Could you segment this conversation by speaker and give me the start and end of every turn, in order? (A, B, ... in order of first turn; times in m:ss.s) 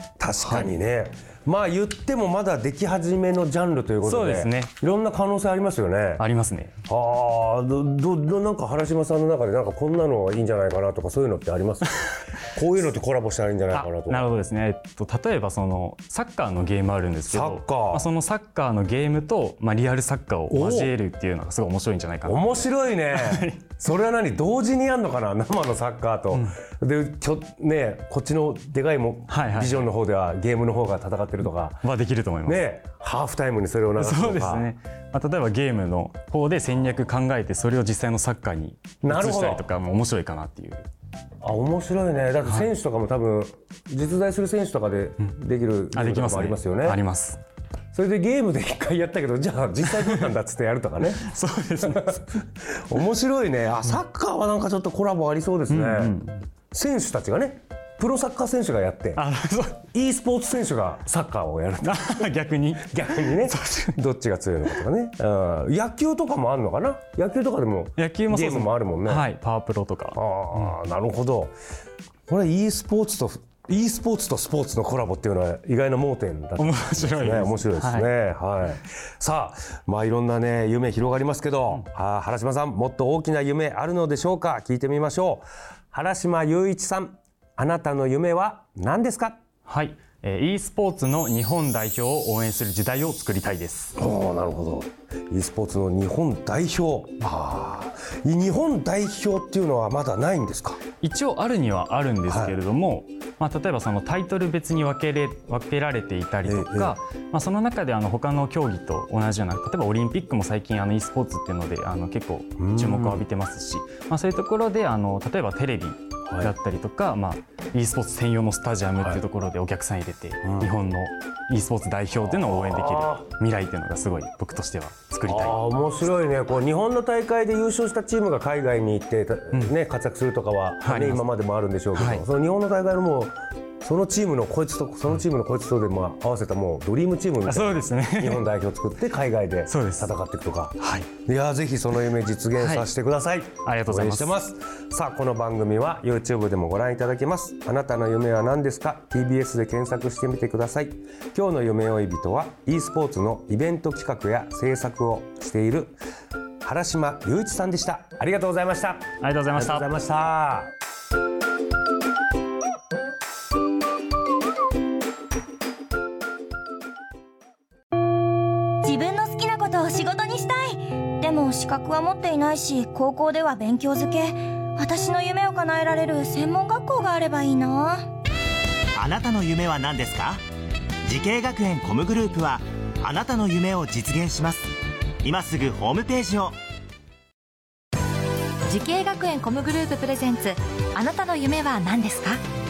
0:00.2-0:06.2 A
0:00.4-0:00.7 B
0:04.0-0:04.7 B
0:06.2-0:06.7 B
0:06.9-0:14.3 A
0:13.7-0:23.6 B
0:17.3-0:18.0 A
0:20.5-0:20.9 A
0:22.2-0:31.9 A
0:29.3-0:29.9 B
0:31.8-0:32.6 B
0:32.4-0:34.7 A
0:34.0-0:40.8 B
0:39.0-0:39.6 A
0:41.4-0:47.0 A
0:45.9-0:47.4 B
0:47.9-0:51.2 A
0:51.1-0:52.3 B
0:51.8-0:56.2 A
0:55.7-0:56.4 B
0:56.7-0:59.2 A
0:59.1-0:59.9 B
0:59.9-1:09.3 A
1:01.8-1:04.0 B
1:08.0-1:10.2 B
1:10.1-1:11.5 A
1:12.3-1:29.4 A
1:16.6-1:18.1 B
1:29.6-1:34.0 B
1:34.0-1:40.8 A
1:41.0-2:05.6 B
1:42.3-1:42.6 A
1:46.4-1:47.0 A
1:52.6-1:53.2 A
2:00.4-2:00.7 A
2:02.1-2:03.3 A
2:05.2-2:36.0 A
2:10.8-2:11.2 B
2:11.9-2:12.2 B
2:17.4-2:18.4 B
2:19.7-2:20.1 B
2:20.8-2:21.1 B
2:22.6-2:22.9 B
2:23.6-2:24.3 B
2:36.6-2:40.7 A
2:39.2-2:39.9 B
2:48.8-2:58.1 C
2:59.0-3:00.4 D
3:01.0-3:04.7 D
3:05.2-3:06.6 D
3:08.7-3:12.4 E